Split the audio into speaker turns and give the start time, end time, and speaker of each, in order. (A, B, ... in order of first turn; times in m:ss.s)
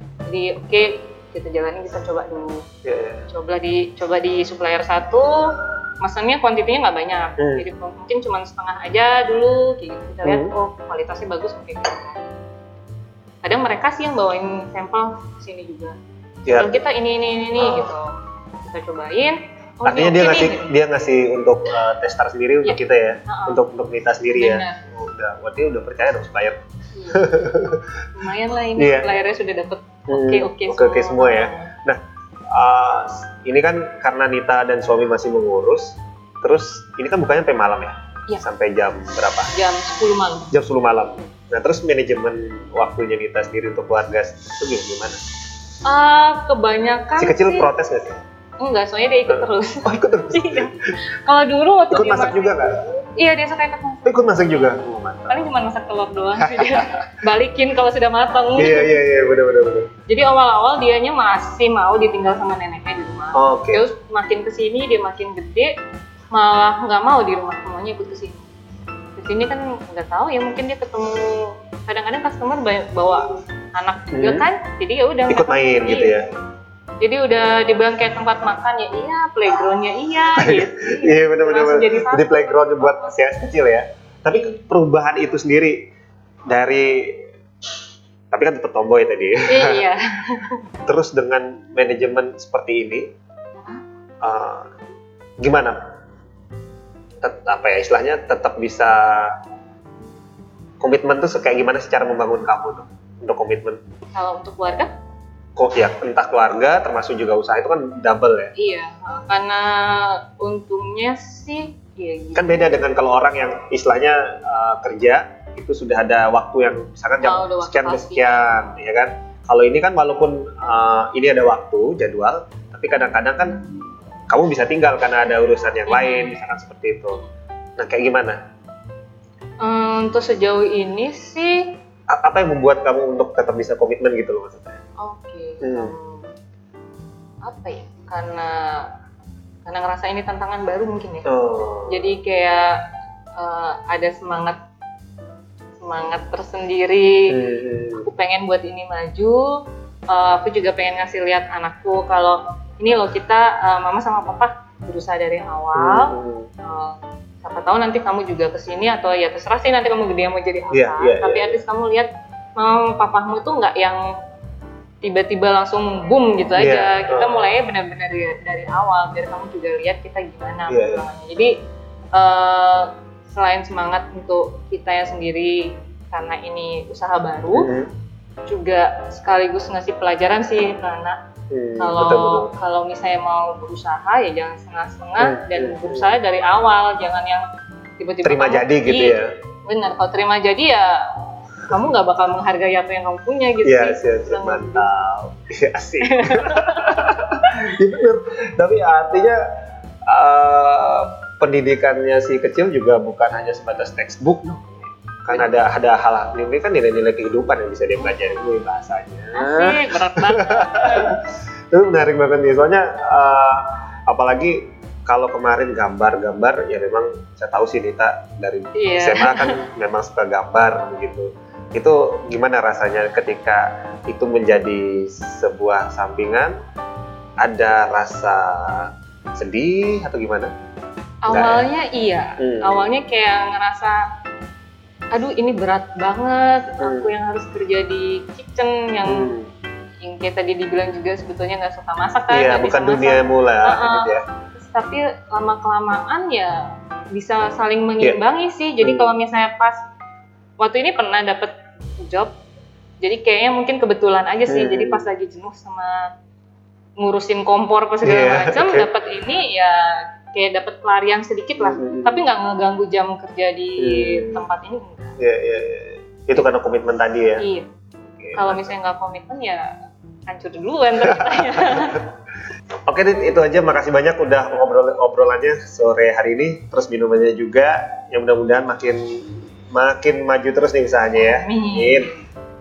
0:00.3-0:02.6 A
0:02.8-0:03.3 B
0:03.3-0:12.2 A
0:07.4-0:07.6 B
0:10.2-0:10.5 B
0:13.4-0:16.0 A
0:16.5-0:16.8 B
0:16.5-0:20.8 A
0:17.6-0:17.9 B
0:19.8-0:26.6 B
0:22.6-0:23.6 A
0:24.4-0:24.8 A
0:26.9-0:27.3 A
0:27.1-0:28.0 B
0:28.2-0:31.7 A
0:28.8-0:29.1 B
0:30.1-0:32.0 B
0:32.5-0:39.5 B
0:39.5-0:40.5 A
0:40.5-0:45.2 B
0:45.8-0:47.7 A
0:47.2-0:48.2 B
0:48.6-0:52.6 A
0:49.3-0:50.8 B
0:51.9-0:52.8 B
0:53.2-0:54.8 A
0:54.0-0:55.5 B
0:55.3-0:59.0 A
0:56.4-0:57.0 B
0:58.6-0:59.9 B
1:00.1-1:05.7 A
1:03.3-1:03.8 B
1:06.3-1:08.4 A
1:09.2-1:16.2 A
1:14.1-1:14.5 B
1:15.3-1:16.2 B
1:17.0-1:23.1 A
1:20.4-1:25.9 B
1:26.5-1:27.3 B
1:28.3-1:29.8 B
1:29.5-1:30.6 A
1:30.9-1:33.1 B
1:34.2-1:34.7 B
1:35.4-1:35.8 B
1:37.2-1:39.4 B
1:40.8-1:43.8 B
1:44.1-1:44.9 A
1:45.6-1:48.5 B
1:48.6-1:52.8 A
1:52.4-2:03.6 B
1:57.2-1:58.6 A
2:04.3-2:07.2 B
2:05.9-2:06.4 A
2:07.8-2:08.4 B
2:09.6-2:11.7 A
2:12.1-2:14.8 B
2:15.0-2:16.3 A
2:15.6-2:15.9 B
2:17.4-2:18.9 A
2:19.6-2:21.3 A
2:21.3-2:22.1 B
2:21.9-2:22.8 A
2:23.4-2:24.6 A
2:25.8-2:27.3 A
2:27.3-2:28.1 B
2:28.0-2:29.6 A
2:30.1-2:44.0 A
2:35.8-2:36.5 B
2:40.7-2:41.6 B
2:45.0-2:51.5 A
2:46.6-2:47.5 B
2:50.7-2:51.0 B
2:52.1-2:57.7 A
2:57.5-2:57.9 B
2:58.5-3:01.2 A
3:01.5-3:02.5 B
3:01.8-3:07.4 A
3:05.2-3:06.1 B
3:08.0-3:11.0 A
3:08.2-3:09.3 B
3:11.6-3:14.9 A
3:13.6-3:19.4 B
3:16.1-3:17.5 A
3:20.1-3:46.5 B
3:28.0-3:28.4 A
3:29.4-3:31.1 A
3:38.8-3:39.6 A
3:47.4-3:50.5 B
3:51.3-3:54.0 A
3:51.3-3:51.7 B
3:52.4-3:52.9 B
3:55.1-3:59.3 A
3:56.8-3:57.1 B
3:59.1-3:59.5 B
4:00.0-4:09.8 A
4:02.3-4:04.2 B
4:08.8-4:09.1 B
4:10.6-4:12.3 A
4:13.0-4:16.1 A
4:14.5-4:15.1 B
4:17.0-4:25.2 A
4:18.0-4:18.9 B
4:21.6-4:22.2 B
4:23.8-4:24.4 B
4:25.2-4:27.4 B
4:27.4-4:27.7 A
4:28.2-4:28.7 B
4:28.3-4:29.7 A
4:30.3-4:32.0 A
4:31.0-4:32.0 B
4:32.9-4:42.1 B
4:41.2-4:42.3 A